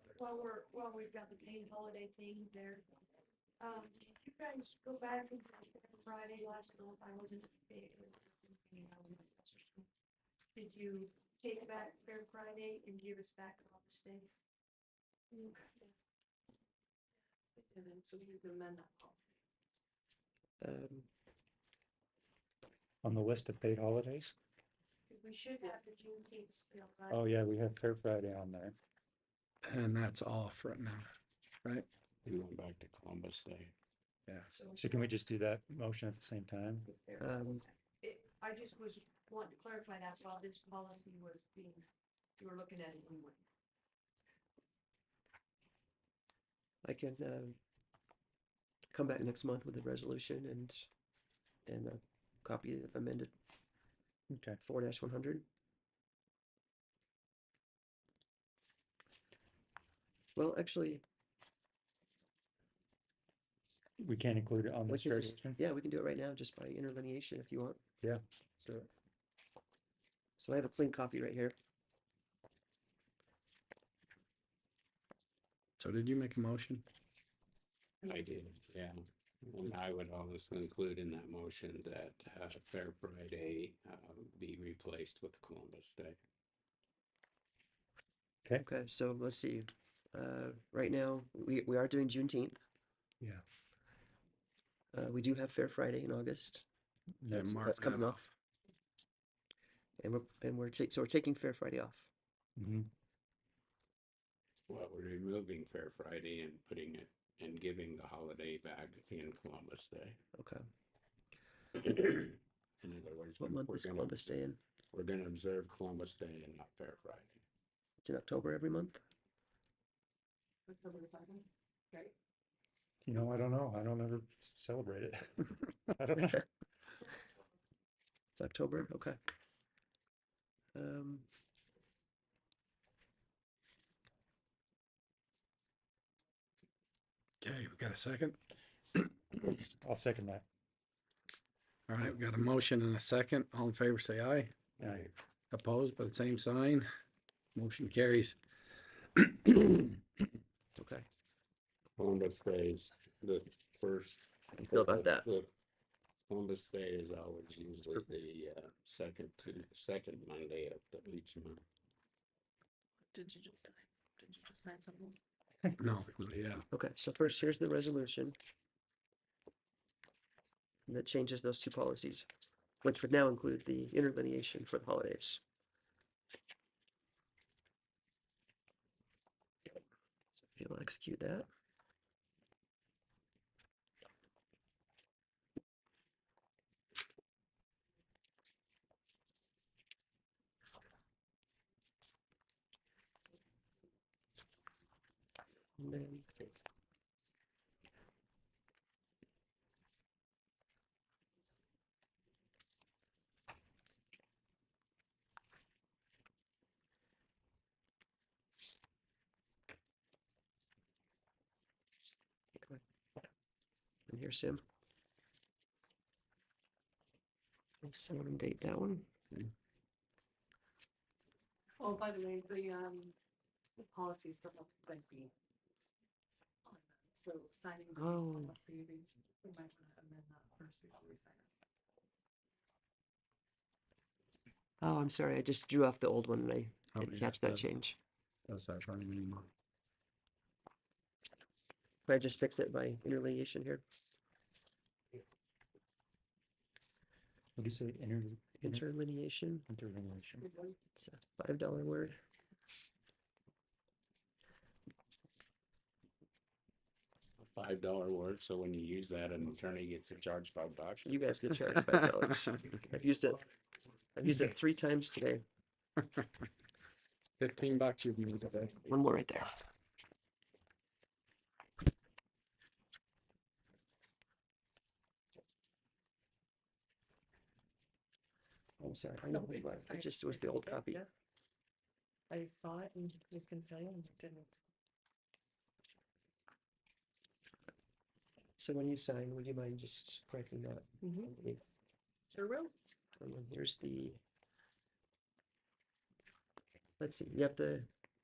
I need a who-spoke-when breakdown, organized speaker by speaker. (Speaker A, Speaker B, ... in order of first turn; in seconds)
Speaker A: 0.1-2.9, 3.6-9.8, 10.5-14.3, 15.3-15.9, 25.1-27.2, 34.5-35.2, 36.9-41.8, 42.4-43.4
Speaker B: 17.6-19.3, 120.7-122.1, 163.1-165.2, 221.8-223.1, 223.8-225.3, 226.6-231.5, 250.5-250.7, 279.3-281.1, 282.3-284.6, 291.0-291.3, 292.3-292.7
Speaker C: 20.6-21.1, 37.2-37.6, 46.8-47.6, 48.9-50.9, 51.6-53.3, 54.6-55.4, 60.4-61.0, 64.9-67.8, 70.4-71.5, 88.6-92.6, 94.9-96.7, 97.4-98.3, 100.0-102.1, 110.3-110.6, 113.4-114.6, 118.0-119.0, 128.3-129.2, 130.7-131.3, 150.8-151.1, 154.6-155.3, 166.7-168.3, 170.9-172.3, 172.8-175.4, 180.5-181.4, 195.8-196.5, 214.1-214.6, 217.8-219.1, 227.9-228.5, 234.8-238.0, 242.1-243.8, 248.6-249.6, 251.0-252.2, 261.0-263.5, 264.1-265.4, 268.9-269.5, 278.8-281.0, 288.6-291.6, 293.2-294.2, 297.0-297.9
Speaker D: 23.0-24.3, 27.1-28.8, 34.3-36.9, 54.3-54.6, 64.0-65.6, 68.0-68.9, 97.2-97.6, 102.6-102.9, 123.0-126.5, 139.5-140.4, 144.8-145.1, 247.6-248.8, 249.7-250.4
Speaker E: 29.6-31.1, 75.8-76.8, 97.3-98.2, 137.4-138.4, 141.9-144.7, 145.5-146.9, 147.5-148.4, 149.1-150.0, 165.8-166.6, 236.9-237.6, 238.5-239.5, 267.4-268.9
Speaker F: 32.2-33.7, 78.0-86.2, 104.7-110.2, 111.8-114.4, 114.9-117.4, 144.8-145.1, 152.0-155.5, 156.3-161.6, 257.4-261.2